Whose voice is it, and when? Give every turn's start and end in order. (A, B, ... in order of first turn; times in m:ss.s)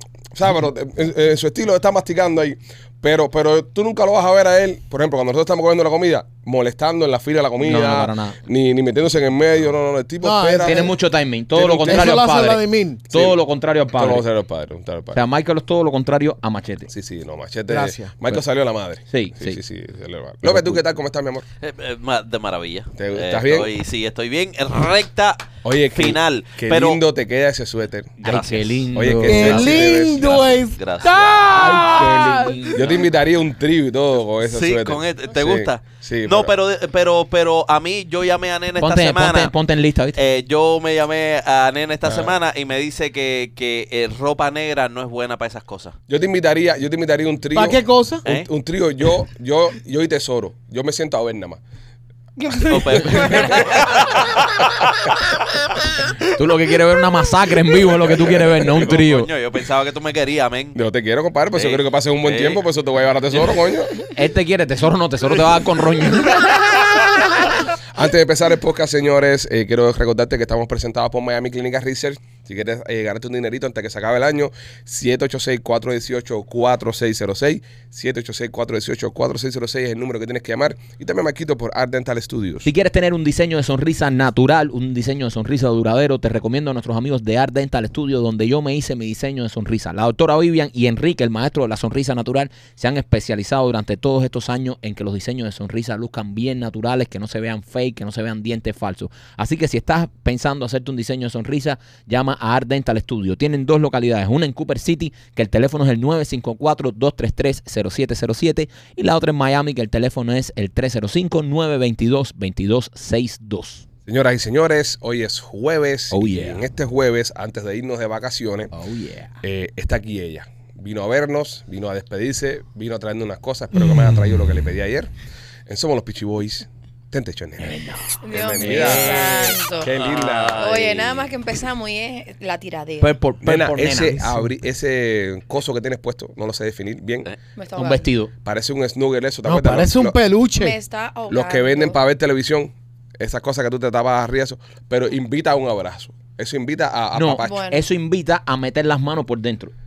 0:00.3-0:11.0 A
0:07.6-0:08.4 B
0:10.2-0:10.9 C
0:10.6-0:14.2 B
0:11.6-0:12.2 A
0:11.6-0:13.0 C
0:13.1-0:13.4 A
0:13.9-0:15.2 A
0:15.1-0:16.9 B
0:16.9-0:21.4 A
0:17.7-0:18.1 C
0:19.1-0:19.6 B
0:20.4-0:20.8 B
0:21.6-0:27.0 D
0:23.0-0:23.7 A
0:25.6-0:28.2 A
0:28.2-0:28.9 D
0:28.2-0:29.8 B
0:28.9-0:30.4 A
0:29.2-0:33.0 C
0:29.7-0:31.6 D
0:31.4-0:33.1 B
0:31.5-0:32.0 A
0:32.7-0:36.5 A
0:34.4-0:39.5 D
0:38.8-0:40.2 B
0:40.2-0:46.0 D
0:42.0-0:42.4 A
0:46.1-0:51.6 A
0:47.5-0:48.2 C
0:52.4-0:54.2 E
0:52.6-0:54.8 D
0:56.2-0:59.3 B
0:58.0-0:58.9 A
0:58.7-1:00.8 D
1:00.7-1:04.0 A
1:01.5-1:02.6 D
1:04.1-1:07.0 B
1:07.9-1:22.7 A
1:22.6-1:53.8 B
1:54.1-1:58.7 A
1:56.1-1:56.6 B
1:58.7-1:59.4 B
1:59.4-2:05.1 A
2:05.7-2:10.8 A
2:07.6-2:09.6 B
2:08.2-2:10.0 E
2:09.9-2:11.3 D
2:10.6-2:13.1 E
2:13.0-2:14.3 B
2:13.4-2:17.3 A
2:14.1-2:14.5 C
2:17.6-2:18.1 E
2:17.7-2:18.3 B
2:18.4-2:20.2 A
2:19.4-2:20.8 C
2:20.6-2:22.0 E
2:21.3-2:27.7 A
2:27.1-2:29.7 B
2:27.4-2:27.8 E